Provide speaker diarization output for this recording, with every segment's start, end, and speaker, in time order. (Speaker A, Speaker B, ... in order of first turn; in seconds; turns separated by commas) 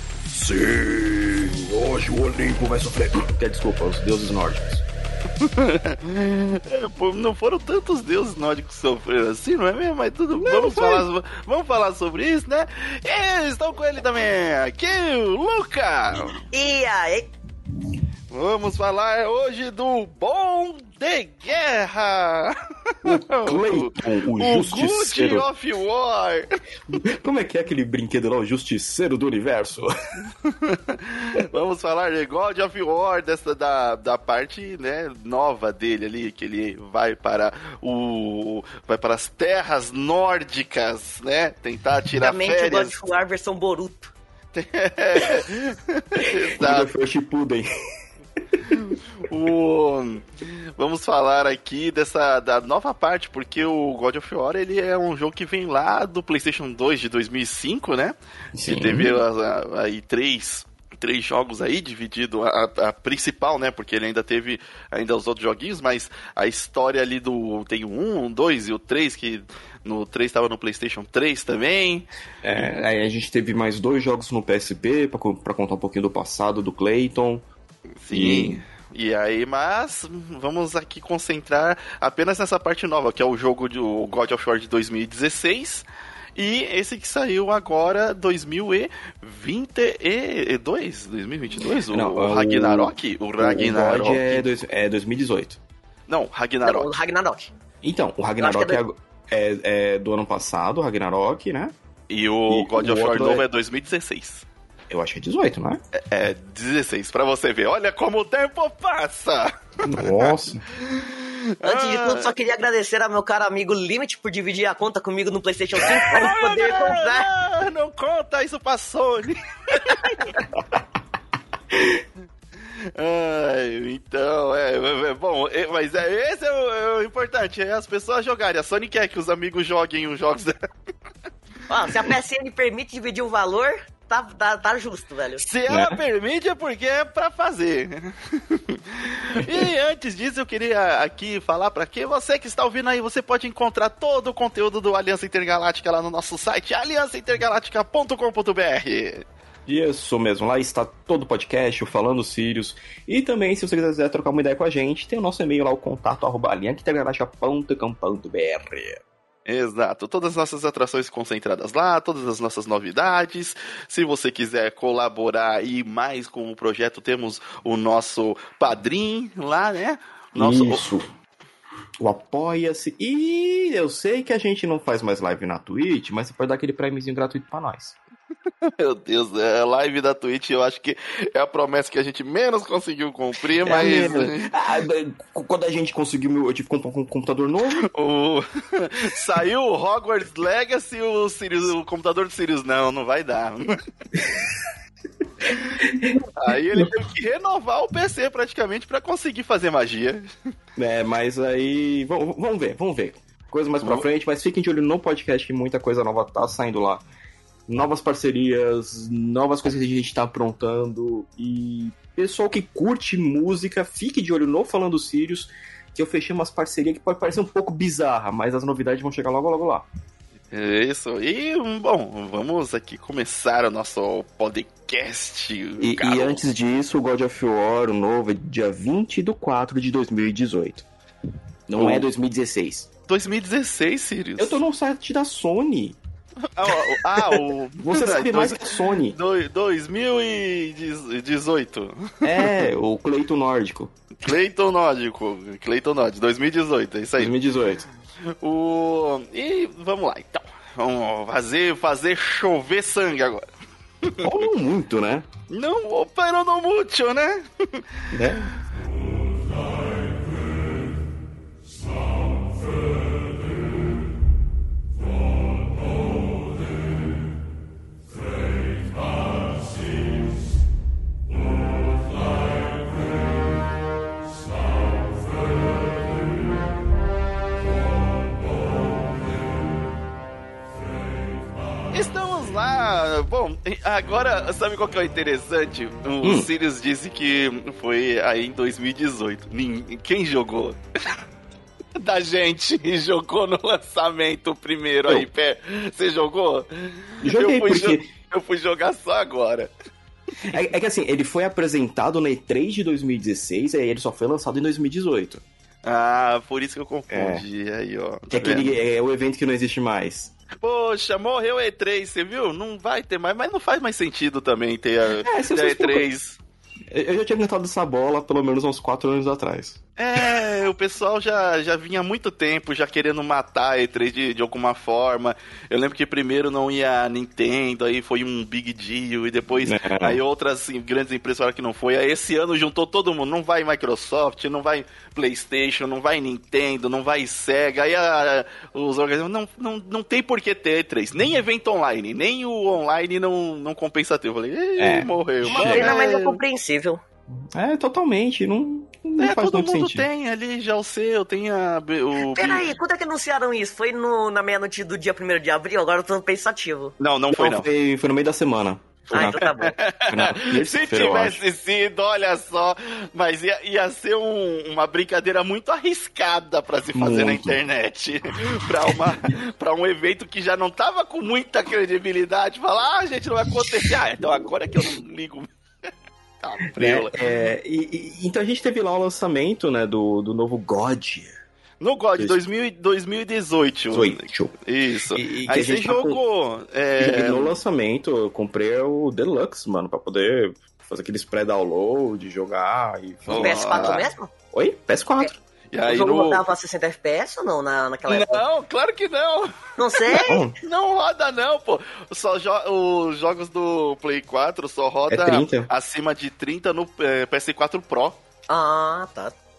Speaker A: 0.3-4.8, Speaker B: 5.4-16.4, Speaker A: 10.4-10.7, Speaker C: 10.6-11.0, Speaker C: 16.5-17.3, Speaker B: 18.3-27.0, Speaker A: 23.0-25.4, Speaker A: 27.0-29.9, Speaker B: 30.4-42.9, Speaker C: 42.2-44.1, Speaker B: 44.5-46.9, Speaker A: 46.2-47.7, Speaker A: 48.5-48.8, Speaker B: 48.7-72.0, Speaker A: 58.5-59.2, Speaker A: 72.4-77.5, Speaker B: 78.0-94.5, Speaker A: 78.1-78.6, Speaker A: 91.9-95.6, Speaker B: 96.1-96.9, Speaker C: 96.6-97.5, Speaker A: 97.8-101.7, Speaker C: 98.4-98.8, Speaker B: 102.1-104.5, Speaker A: 102.5-103.5, Speaker A: 104.9-105.8, Speaker B: 105.9-112.3, Speaker A: 109.8-110.6, Speaker C: 111.6-117.3, Speaker B: 116.1-120.4, Speaker A: 121.7-122.0, Speaker B: 122.9-130.6, Speaker C: 131.7-135.4, Speaker B: 135.4-149.2, Speaker A: 135.7-136.0, Speaker A: 149.7-159.0, Speaker B: 159.4-170.8, Speaker A: 170.3-171.1, Speaker A: 172.0-177.9, Speaker B: 178.6-184.5, Speaker A: 183.6-187.9, Speaker B: 187.8-193.7, Speaker A: 194.2-194.5, Speaker A: 195.4-196.9, Speaker B: 196.4-200.2, Speaker A: 200.8-207.1, Speaker A: 207.7-219.8, Speaker B: 220.5-226.4, Speaker A: 225.8-230.9, Speaker A: 231.7-232.9, Speaker B: 231.8-232.1, Speaker B: 233.1-234.6, Speaker A: 234.4-236.0, Speaker B: 236.5-242.7, Speaker A: 236.7-239.2, Speaker A: 242.2-243.9, Speaker B: 244.2-247.3, Speaker A: 247.2-247.9, Speaker B: 248.4-253.4, Speaker B: 254.0-254.5, Speaker A: 254.2-255.3, Speaker B: 255.5-258.2, Speaker A: 258.1-258.5, Speaker B: 281.9-291.2, Speaker A: 286.2-286.5, Speaker B: 292.0-299.7, Speaker A: 297.2-298.1, Speaker A: 300.4-305.4, Speaker B: 305.8-308.8, Speaker A: 307.1-307.4, Speaker A: 308.3-310.3, Speaker B: 310.6-316.4, Speaker A: 315.1-316.1, Speaker A: 316.9-320.3, Speaker B: 320.0-346.4, Speaker A: 329.6-330.2, Speaker A: 344.8-345.9, Speaker C: 345.5-347.0, Speaker A: 347.5-350.1, Speaker B: 349.2-352.6, Speaker C: 352.2-356.9, Speaker B: 357.0-357.7, Speaker A: 357.3-359.4, Speaker C: 359.1-359.8, Speaker B: 359.1-375.5, Speaker A: 360.1-361.4, Speaker A: 366.9-367.6, Speaker A: 373.5-374.2, Speaker B: 376.4-377.1, Speaker A: 376.8-381.3, Speaker B: 381.8-387.6, Speaker A: 383.9-384.5, Speaker A: 385.1-386.2, Speaker A: 387.0-395.4, Speaker B: 393.3-394.1, Speaker C: 393.4-394.3, Speaker B: 395.7-396.4, Speaker C: 395.8-398.4, Speaker B: 398.1-408.2, Speaker C: 399.8-400.4, Speaker A: 400.2-400.6, Speaker A: 405.1-405.7, Speaker C: 408.5-409.3